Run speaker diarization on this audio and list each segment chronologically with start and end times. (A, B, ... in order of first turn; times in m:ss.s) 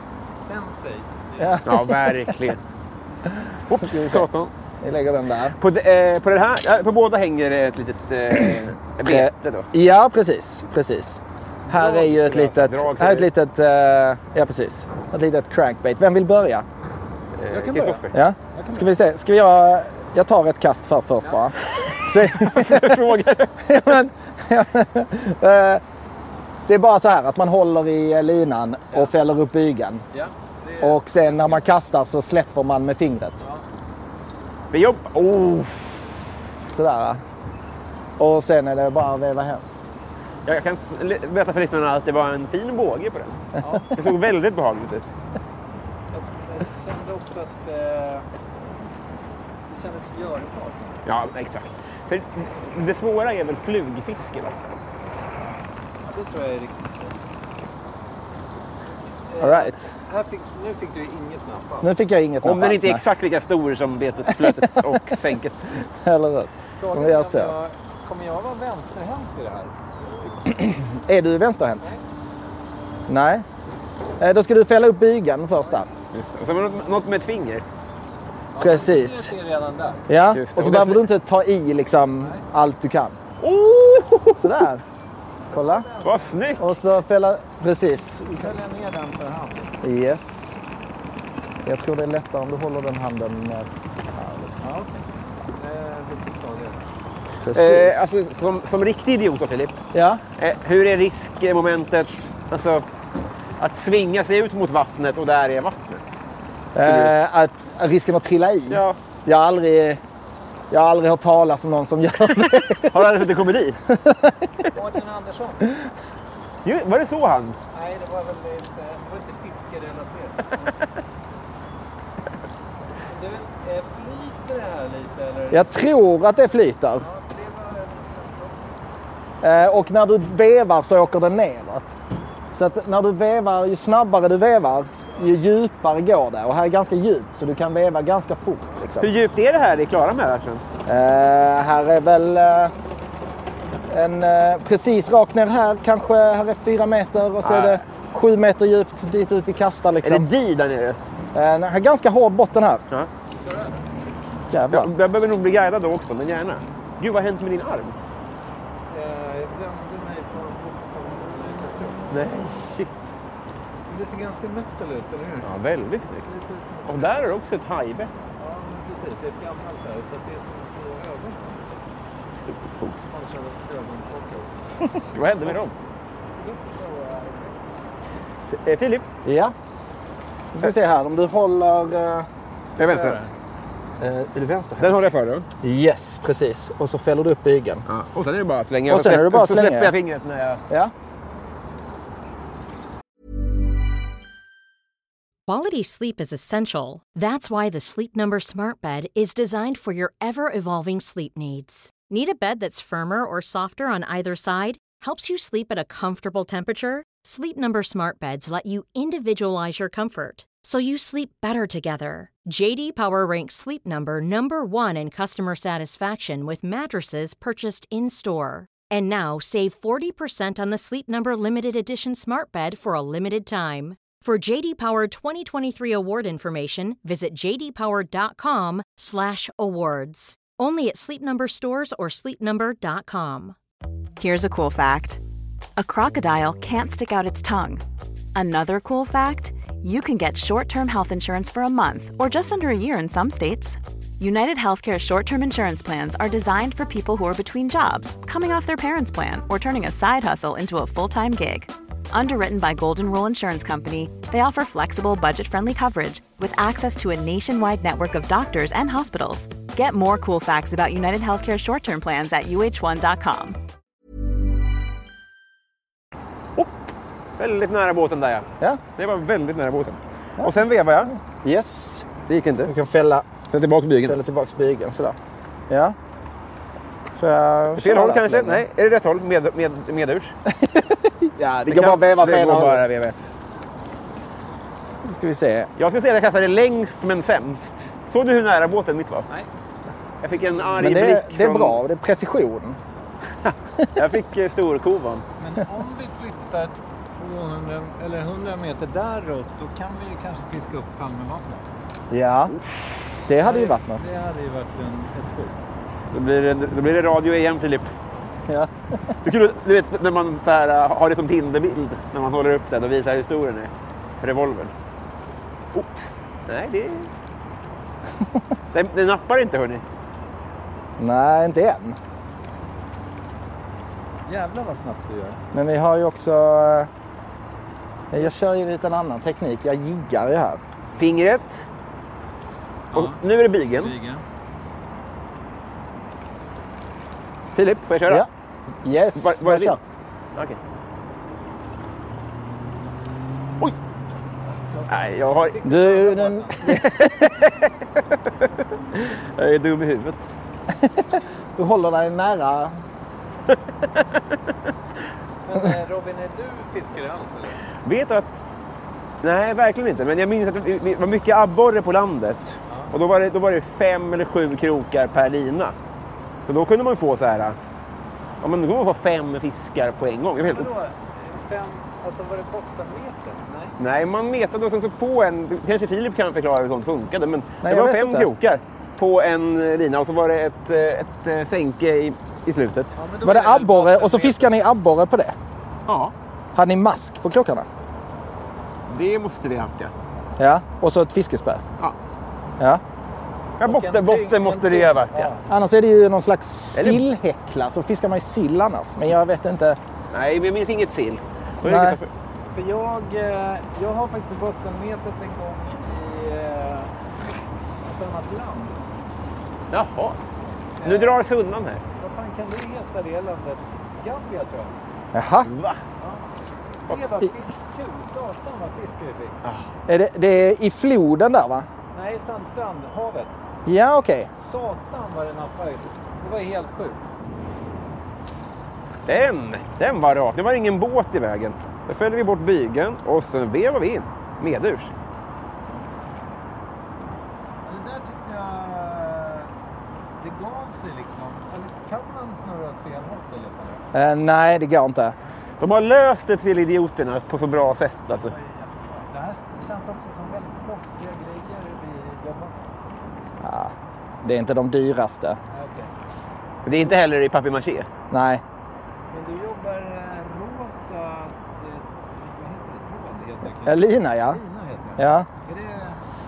0:00.4-0:01.6 A
0:01.4-0:02.3 B
0:01.6-0:02.6 C
0:03.3-0:04.3 B
0:03.7-0:04.5 C
0:04.8-0:05.6 B
0:05.6-0:09.7 C
0:09.0-0:16.6 B
0:11.7-0:13.3 C
0:17.4-0:18.1 C
0:17.5-0:18.0 A
0:18.1-0:23.0 B
0:18.5-0:18.9 A
0:22.3-0:23.6 C
0:23.6-0:25.8 B
0:26.7-0:30.0 B
0:30.1-0:31.7 A
0:30.8-0:33.4 B
0:34.7-0:36.0 C
0:36.7-0:37.2 B
0:38.2-0:39.6 B
0:40.4-0:43.4 C
0:43.6-0:43.9 A
0:43.9-0:45.1 C
0:46.1-0:48.2 A
0:49.7-0:51.0 A
0:51.0-0:54.6 C
0:56.0-0:57.2 A
0:58.9-1:02.0 A
0:59.4-0:59.8 B
1:01.8-1:03.0 B
1:02.4-1:05.7 C
1:04.4-1:04.8 B
1:06.0-1:07.5 B
1:06.8-1:10.4 A
1:10.4-1:11.9 B
1:13.1-1:13.4 B
1:14.2-1:15.9 B
1:15.6-1:15.9 A
1:16.1-1:17.6 C
1:18.5-1:20.0 A
1:18.6-1:19.3 B
1:20.1-1:23.2 B
1:20.3-1:21.0 C
1:22.2-1:22.4 A
1:23.4-1:24.5 C
1:24.4-1:24.8 B
1:25.5-1:26.7 A
1:25.5-1:25.9 B
1:26.0-1:26.7 C
1:26.6-1:28.5 B
1:28.4-1:29.7 A
1:29.8-1:30.6 B
1:31.6-1:34.6 B
1:34.6-1:36.8 A
1:37.4-1:38.1 B
1:37.5-1:39.8 C
1:39.9-1:40.2 B
1:40.4-1:42.8 C
1:43.6-1:46.0 C
1:46.7-1:50.0 B
1:46.8-1:47.1 C
1:48.7-1:49.0 C
1:50.7-1:53.2 B
1:52.7-1:53.8 C
1:53.9-1:54.5 B
1:54.7-1:55.7 A
1:56.6-1:57.6 C
1:57.7-2:00.6 A
2:03.0-2:05.8 A
2:05.5-2:07.0 B
2:07.0-2:08.6 A
2:09.4-2:11.9 B
2:12.5-2:19.1 B
2:19.0-2:20.6 C
2:20.8-2:22.7 B
2:23.9-2:30.3 B
2:27.4-2:27.8 C
2:30.0-2:31.0 C
2:31.3-2:32.8 B
2:33.4-2:33.8 A
2:34.5-2:34.9 B
2:34.7-2:38.0 C
2:38.9-2:42.1 A
2:42.1-2:42.9 C
2:43.9-2:45.5 A
2:45.4-2:46.2 C
2:46.1-2:47.2 A
2:46.9-2:48.1 C
2:48.4-2:51.8 A
2:52.4-2:53.0 C
2:53.0-2:54.6 A
2:55.1-2:55.7 C
2:56.4-2:57.6 A
2:58.5-2:59.1 C
2:59.2-2:59.5 B
3:00.5-3:02.3 B
3:02.8-3:03.2 C
3:02.8-3:03.3 A
3:04.0-3:05.0 B
3:04.8-3:05.5 C
3:05.6-3:07.8 B
3:07.9-3:10.6 C
3:08.9-3:09.9 B
3:15.4-3:53.6 D
3:54.2-3:55.2 E
3:55.8-3:57.8 E
3:58.3-4:23.6 E
4:27.4-4:28.4 C
4:29.0-4:31.1 C
4:31.1-4:32.1 B
4:32.3-4:32.7 C
4:32.6-4:33.3 B
4:33.5-4:34.2 C
4:34.0-4:35.2 B
4:35.7-4:35.9 B
4:37.2-4:38.6 B
4:37.7-4:40.4 C
4:40.6-4:42.8 B
4:41.7-4:43.1 C
4:45.0-4:45.7 B
4:45.8-4:49.3 C
4:50.2-4:51.8 C
4:50.5-4:50.8 A
4:50.8-4:52.8 B
4:53.4-4:55.2 C
4:55.4-5:01.7 A
5:02.1-5:02.6 B
5:03.3-5:04.0 B
5:03.4-5:05.5 A
5:06.1-5:07.9 C
5:08.5-5:09.1 B
5:09.2-5:14.7 C
5:15.7-5:17.1 C
5:18.7-5:19.8 C
5:21.0-5:22.0 B
5:24.3-5:25.4 A
5:25.5-5:26.9 B
5:28.1-5:30.6 B
5:30.9-5:31.6 C
5:32.9-5:34.2 A
5:32.9-5:33.9 C
5:37.5-5:38.3 C
5:38.8-5:39.8 B
5:39.2-5:39.8 C
5:44.7-5:46.8 A
5:44.9-5:45.6 C
5:45.6-5:47.0 B
5:46.7-5:47.7 C
5:48.9-5:50.3 C
5:50.8-5:52.8 B
5:55.4-5:57.6 A
5:57.8-5:58.4 C
5:59.2-6:05.7 C
6:06.4-6:07.6 C
6:08.4-6:10.7 C
6:10.4-6:13.8 A
6:13.8-6:22.9 C
6:17.6-6:18.3 B
6:22.9-6:24.4 A
6:23.2-6:25.4 B
6:25.9-6:26.1 C
6:26.5-6:27.7 B
6:28.9-6:29.9 C
6:30.4-6:31.6 B
6:33.6-6:35.3 C
6:33.6-6:35.4 A
6:35.5-6:39.8 B
6:36.7-6:37.0 C
6:40.1-6:42.1 C
6:41.6-6:42.0 B
6:42.5-6:46.9 A
6:47.8-6:48.8 A
6:49.7-6:50.2 C
6:50.8-6:51.2 A
6:50.8-6:51.8 C
6:52.0-6:54.8 A
6:55.1-6:55.5 B
6:55.4-6:55.8 C
6:56.0-6:56.3 A
6:56.9-6:59.4 A
6:59.9-7:01.7 B
7:01.9-7:03.4 A
7:03.6-7:04.3 B
7:04.4-7:07.0 A
7:09.1-7:14.9 C
7:17.6-7:19.5 A
7:20.2-7:23.8 A
7:23.9-7:25.2 B
7:25.6-7:28.3 C
7:28.2-7:32.6 A
7:33.4-7:35.4 B
7:35.5-7:35.9 A
7:36.6-7:37.9 C
7:38.1-7:38.4 B
7:39.1-7:46.0 A
7:43.6-7:44.4 B
7:45.0-7:45.3 B